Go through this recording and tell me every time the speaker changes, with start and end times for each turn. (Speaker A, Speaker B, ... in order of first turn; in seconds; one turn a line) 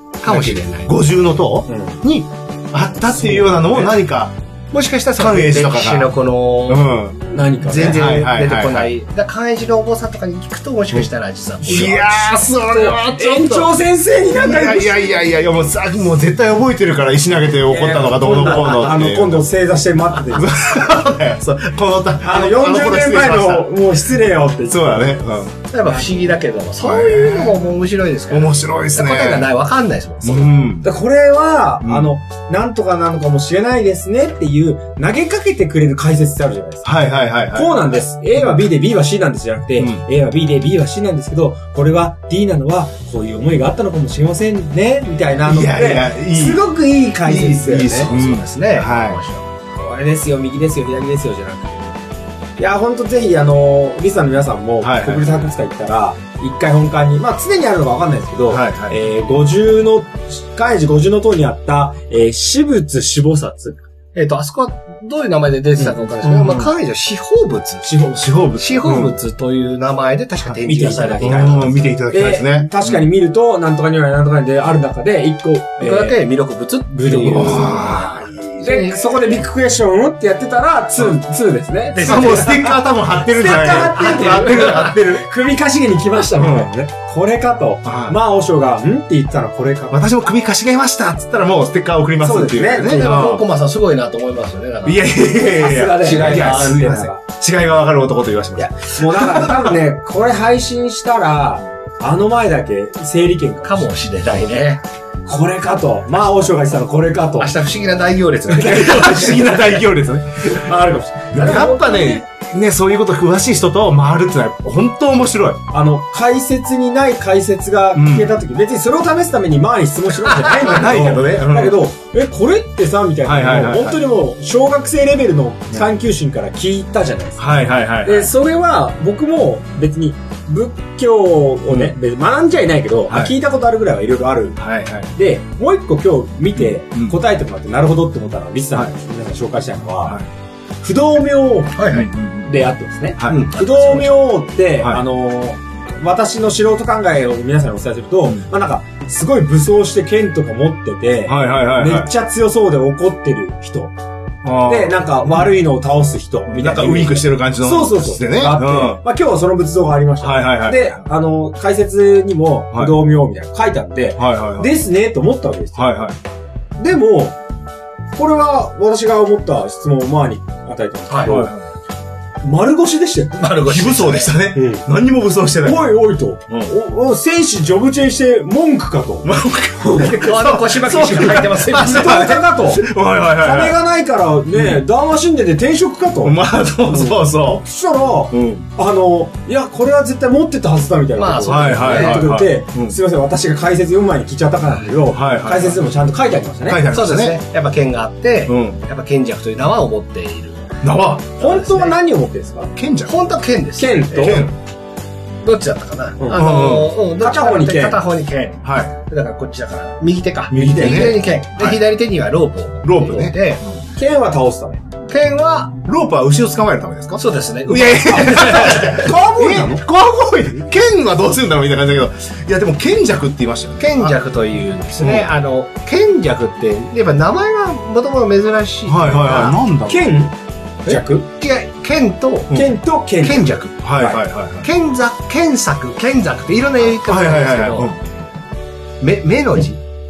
Speaker A: 0.2-0.9
Speaker B: 0.2-4.3
Speaker C: 1.7-2.0
Speaker C: 3.2-3.6
Speaker A: 4.7-6.9
Speaker B: 5.2-6.1
Speaker B: 6.7-8.9
Speaker C: 7.3-8.0
Speaker A: 7.6-12.4
Speaker C: 11.6-12.0
Speaker B: 11.6-13.7
Speaker C: 12.6-15.1
Speaker B: 14.3-19.4
Speaker C: 17.6-20.6
Speaker B: 20.3-24.0
Speaker C: 22.2-25.2
Speaker B: 24.7-25.5
Speaker A: 25.7-30.5
Speaker B: 26.8-27.6
Speaker B: 28.3-29.5
Speaker B: 30.2-30.9
Speaker C: 30.8-36.9
Speaker B: 31.8-32.1
Speaker B: 36.8-38.7
Speaker C: 37.5-48.1
Speaker B: 39.8-40.0
Speaker B: 45.4-46.6
Speaker B: 47.2-49.2
Speaker A: 47.9-49.7
Speaker C: 49.8-52.0
Speaker C: 52.6-63.8
Speaker B: 54.8-55.4
Speaker B: 58.5-59.0
Speaker A: 64.1-67.9
Speaker B: 66.2-66.7
Speaker C: 67.8-68.3
Speaker B: 68.1-69.2
Speaker A: 68.6-72.0
Speaker C: 70.7-76.2
Speaker B: 71.2-73.1
Speaker A: 75.8-79.4
Speaker C: 76.9-77.9
Speaker B: 77.1-78.6
Speaker C: 78.6-90.1
Speaker A: 81.9-82.9
Speaker B: 82.0-85.2
Speaker A: 83.7-84.9
Speaker B: 86.4-86.7
Speaker B: 87.8-88.2
Speaker B: 89.9-93.5
Speaker C: 92.2-93.1
Speaker A: 92.8-97.0
Speaker B: 94.8-99.8
Speaker C: 95.5-97.2
Speaker C: 98.6-103.9
Speaker A: 103.6-104.8
Speaker C: 105.2-107.6
Speaker A: 107.4-109.7
Speaker C: 108.5-109.5
Speaker B: 108.6-110.7
Speaker C: 110.5-112.2
Speaker B: 111.3-115.6
Speaker C: 115.7-127.5
Speaker B: 117.9-118.3
Speaker B: 120.5-121.8
Speaker B: 123.2-124.0
Speaker B: 127.4-128.3
Speaker C: 128.0-134.6
Speaker B: 131.7-131.9
Speaker B: 133.1-133.3
Speaker B: 134.6-135.1
Speaker C: 135.1-140.2
Speaker B: 136.5-137.2
Speaker C: 140.8-153.9
Speaker A: 141.8-142.1
Speaker B: 141.9-143.4
Speaker A: 143.2-144.2
Speaker B: 151.2-152.1
Speaker B: 154.4-155.5
Speaker C: 154.6-166.1
Speaker B: 156.5-159.0
Speaker B: 160.2-161.0
Speaker B: 162.7-163.0
Speaker B: 164.2-164.8
Speaker B: 165.8-166.2
Speaker C: 166.8-167.4
Speaker C: 168.2-171.5
Speaker A: 171.1-171.4
Speaker B: 171.2-171.6
Speaker C: 172.4-173.5
Speaker A: 173.3-174.3
Speaker B: 173.6-175.9
Speaker C: 174.5-174.8
Speaker C: 175.6-179.3
Speaker B: 176.5-176.7
Speaker B: 179.2-183.8
Speaker A: 179.9-182.4
Speaker C: 181.7-196.9
Speaker B: 184.5-184.8
Speaker B: 186.2-187.7
Speaker B: 188.3-188.7
Speaker A: 191.2-192.3
Speaker B: 191.4-193.0
Speaker B: 195.1-195.8
Speaker B: 196.7-197.4
Speaker A: 196.9-200.8
Speaker B: 198.5-198.8
Speaker B: 200.8-201.4
Speaker A: 201.4-202.0
Speaker C: 201.4-202.7
Speaker B: 202.8-203.1
Speaker A: 203.0-204.5
Speaker C: 203.8-204.5
Speaker B: 204.2-204.5
Speaker A: 205.4-213.6
Speaker C: 206.2-208.0
Speaker B: 206.3-206.9
Speaker B: 208.6-208.9
Speaker C: 210.5-211.2
Speaker B: 210.5-211.8
Speaker B: 212.8-213.8
Speaker C: 213.9-214.8
Speaker A: 215.1-215.8
Speaker B: 215.8-224.2
Speaker A: 217.2-219.1
Speaker C: 218.3-219.8
Speaker A: 223.8-229.6
Speaker B: 225.0-225.3
Speaker B: 228.9-230.2
Speaker C: 229.9-230.3
Speaker C: 230.8-231.3
Speaker A: 230.9-232.6
Speaker C: 232.5-234.2
Speaker A: 233.2-233.8
Speaker B: 233.8-234.7
Speaker A: 234.6-238.0
Speaker B: 237.0-238.0
Speaker A: 239.0-239.8